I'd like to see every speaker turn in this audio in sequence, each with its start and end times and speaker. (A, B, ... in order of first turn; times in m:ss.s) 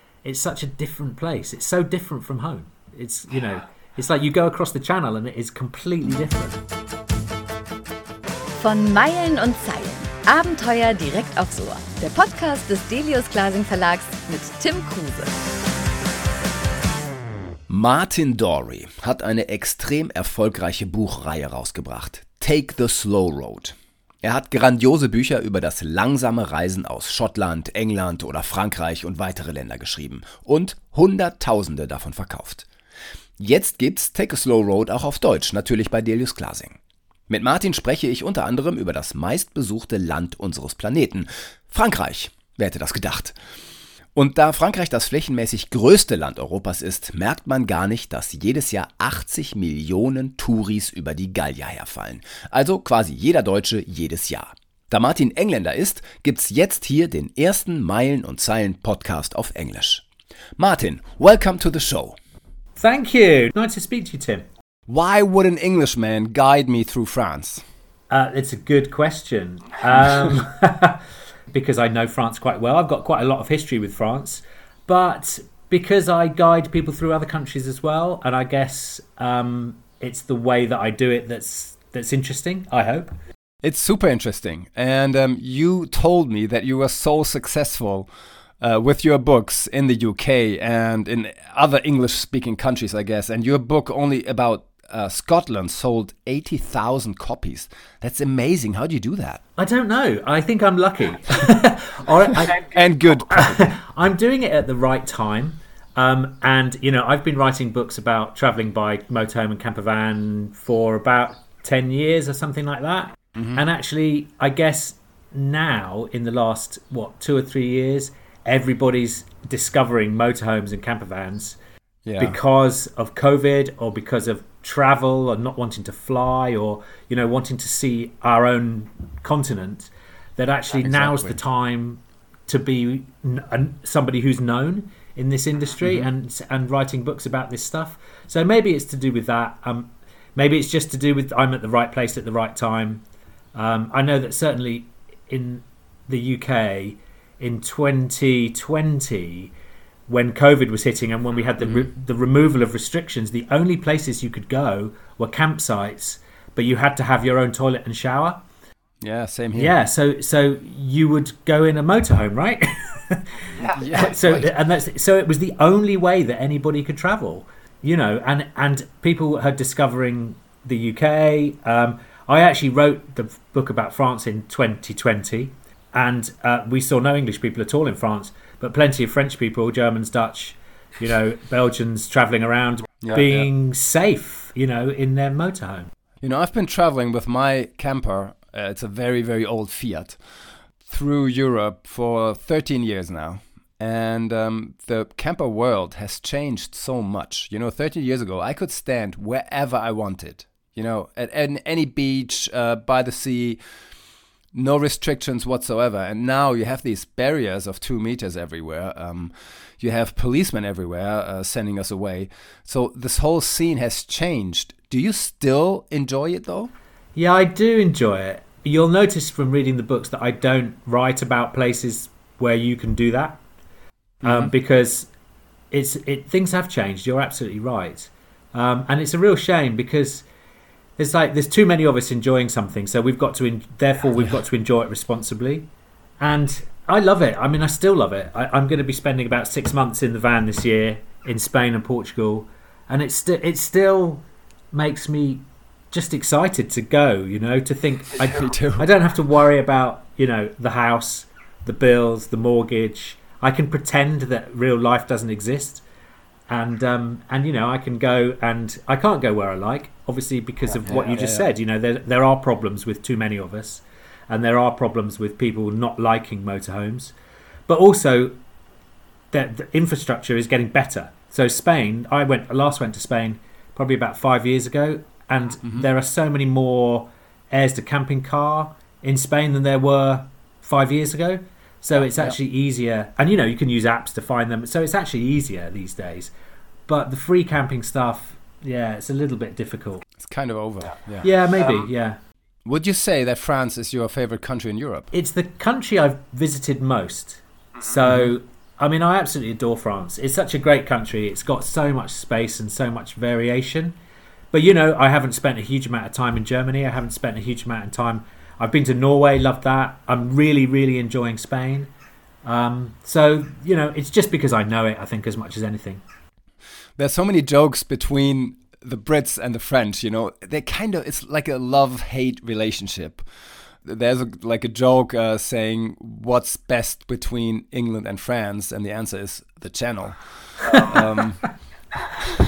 0:00.2-0:06.6 A
0:08.6-0:15.3 B
0:17.7-0:32.7 C
0:33.4-0:36.8 C
0:37.3-0:43.4 C
0:44.2-1:00.0 C
1:00.6-1:02.2 C
1:02.8-1:04.4 A
1:04.9-1:07.6 C
1:08.1-1:23.1 A
1:23.6-1:28.1 C
1:28.6-1:39.4 C
1:39.6-1:42.7 A
1:42.5-1:43.7 C
1:43.3-2:01.6 A
1:53.4-1:53.7 C
2:02.0-2:02.4 C
2:02.2-2:23.0 A
2:10.7-2:11.4 C
2:15.8-2:16.1 C
2:23.6-2:29.5 A
2:30.1-2:38.4 A
2:31.6-2:31.9 C
2:39.0-2:39.8 C
2:39.6-3:05.9 A
2:43.6-2:44.6 C
3:03.0-3:03.5 C
3:06.2-3:10.2 C
3:10.8-3:23.6 C
3:24.5-3:36.7 C
3:37.2-3:43.4 A
3:44.2-3:45.1 A
3:44.2-3:44.5 C
3:45.7-3:50.2 A
3:51.0-3:55.7 A
3:56.2-4:15.8 A
4:08.2-4:08.9 C
4:16.5-4:27.1 A
4:20.8-4:21.5 C
4:27.7-4:28.4 A
4:29.3-4:46.3 A
4:46.9-4:50.1 A
4:50.2-4:51.3 C
4:51.2-4:52.2 A
4:52.7-4:55.1 C
4:55.1-5:04.0 A
4:58.0-4:58.3 C
5:04.5-5:11.9 A
5:12.4-5:16.0 A
5:17.0-5:23.2 C
5:23.8-5:31.5 C